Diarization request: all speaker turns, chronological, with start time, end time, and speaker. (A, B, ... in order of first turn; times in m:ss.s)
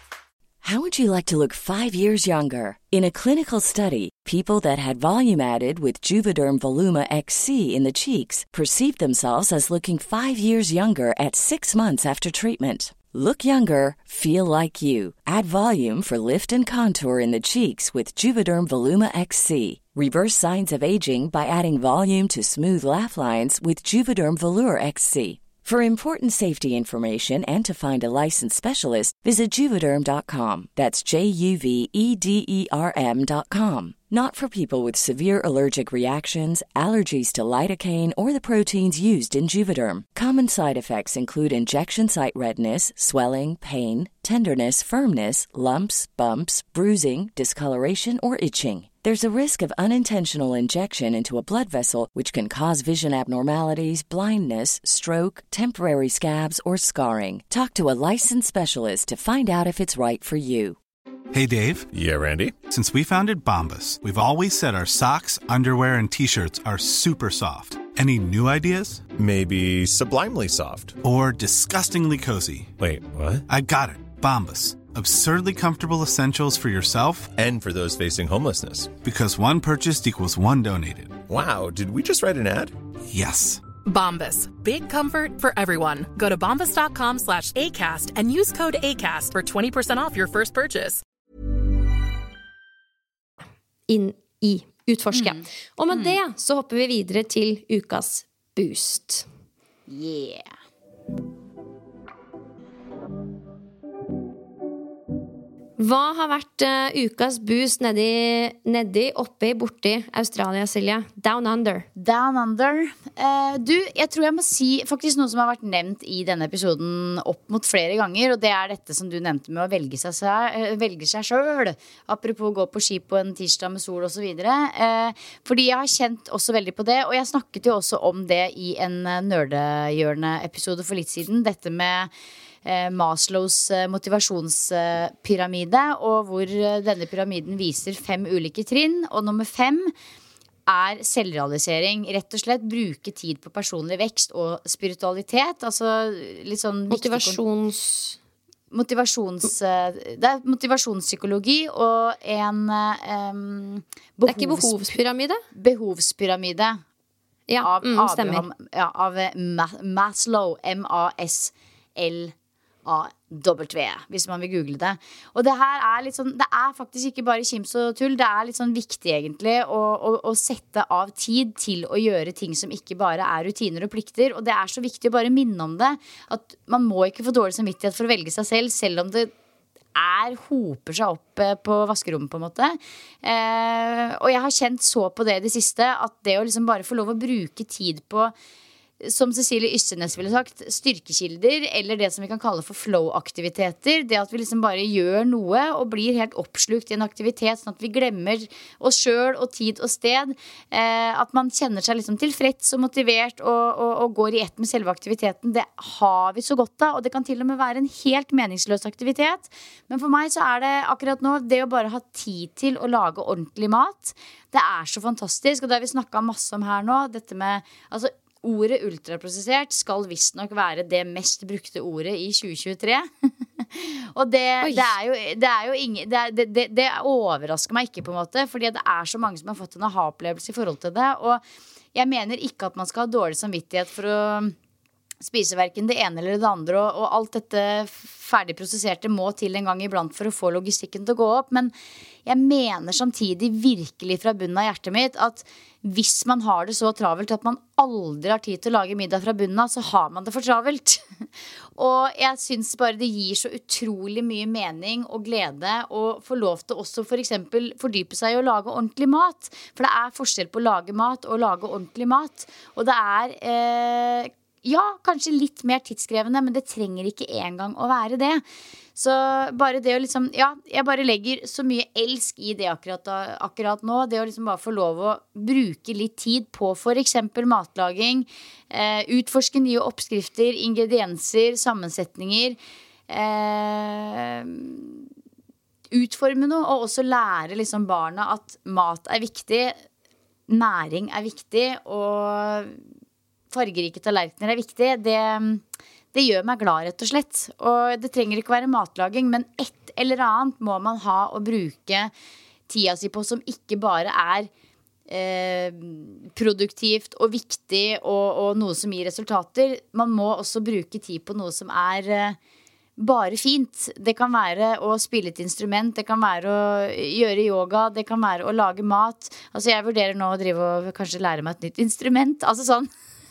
0:00.6-1:00.8 A
1:01.3-1:01.9 B
1:01.9-1:02.6 C
1:02.7-1:09.0 B
1:09.2-1:11.0 C
1:11.0-1:12.7 B
1:12.8-1:13.4 C
1:13.5-1:17.3 B
1:17.4-1:18.9 C
1:19.0-1:21.2 B
1:21.3-1:22.8 C
1:23.1-1:23.6 B
1:23.8-1:31.0 D
1:33.9-1:39.3 E
1:35.1-1:36.2 F
1:39.9-1:40.5 F
1:45.8-1:51.9 E
1:52.0-2:12.1 F
2:12.6-2:19.9 F
2:20.7-2:27.4 F
2:26.9-2:28.2 E
2:28.7-2:34.9 F
2:34.3-2:35.4 E
2:35.6-2:36.8 F
2:37.5-2:38.4 E
2:37.6-2:42.3 F
2:42.8-2:59.3 F
3:00.0-3:08.3 F
3:09.0-3:43.1 F
3:43.8-3:51.4 F
3:44.6-3:44.9 E
3:52.0-3:54.6 F
3:55.2-4:01.7 F
4:02.3-4:11.0 F
4:11.8-4:28.4 F
4:29.0-4:42.6 F
4:43.1-4:45.0 F
4:45.9-4:49.8 F
4:50.5-4:52.8 F
4:53.5-4:55.6 F
4:56.1-5:02.1 F
5:02.7-5:04.5 F
5:05.1-5:12.4 F
5:13.0-5:22.9 F